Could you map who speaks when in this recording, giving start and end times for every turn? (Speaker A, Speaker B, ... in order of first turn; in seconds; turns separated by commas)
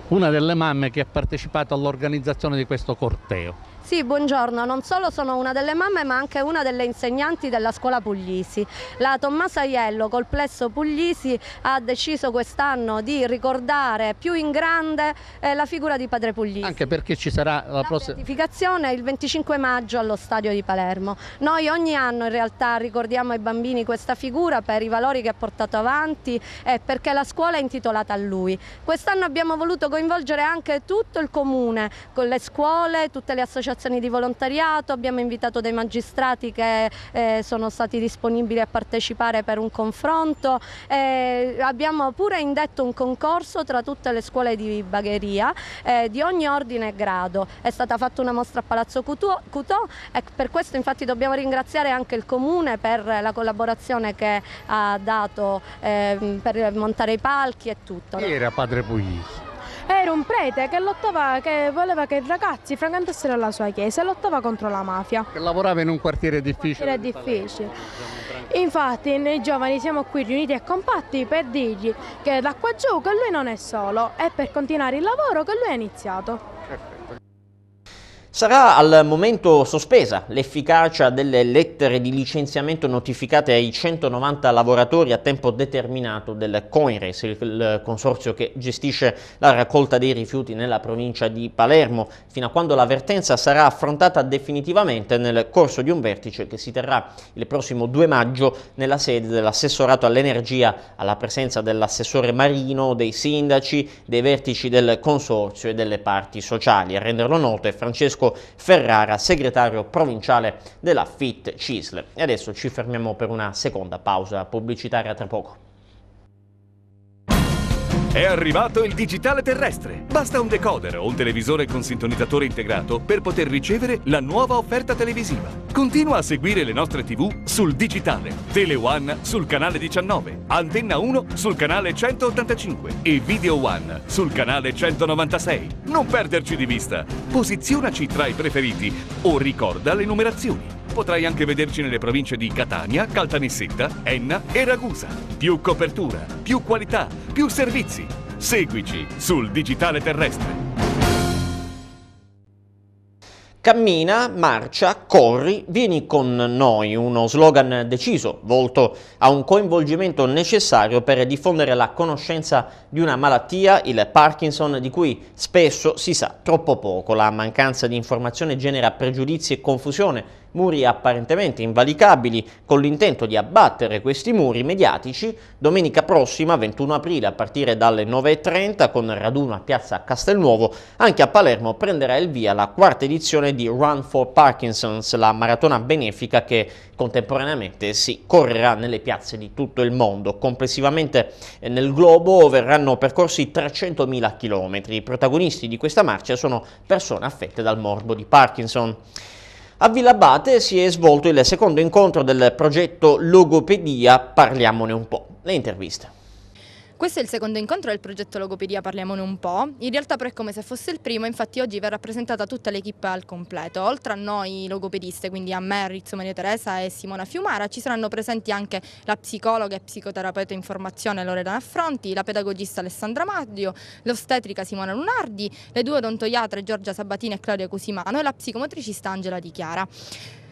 Speaker A: 0.1-3.5, Speaker B: 3.8-16.9, Speaker A: 16.6-18.2, Speaker B: 17.8-58.4, Speaker A: 58.2-59.3, Speaker C: 59.9-65.3, Speaker A: 65.3-67.7, Speaker C: 66.6-67.7, Speaker C: 68.5-76.4, Speaker D: 78.3-115.6, Speaker E: 118.1-150.6, Speaker D: 153.6-199.0, Speaker D: 199.8-206.1, Speaker F: 207.0-229.9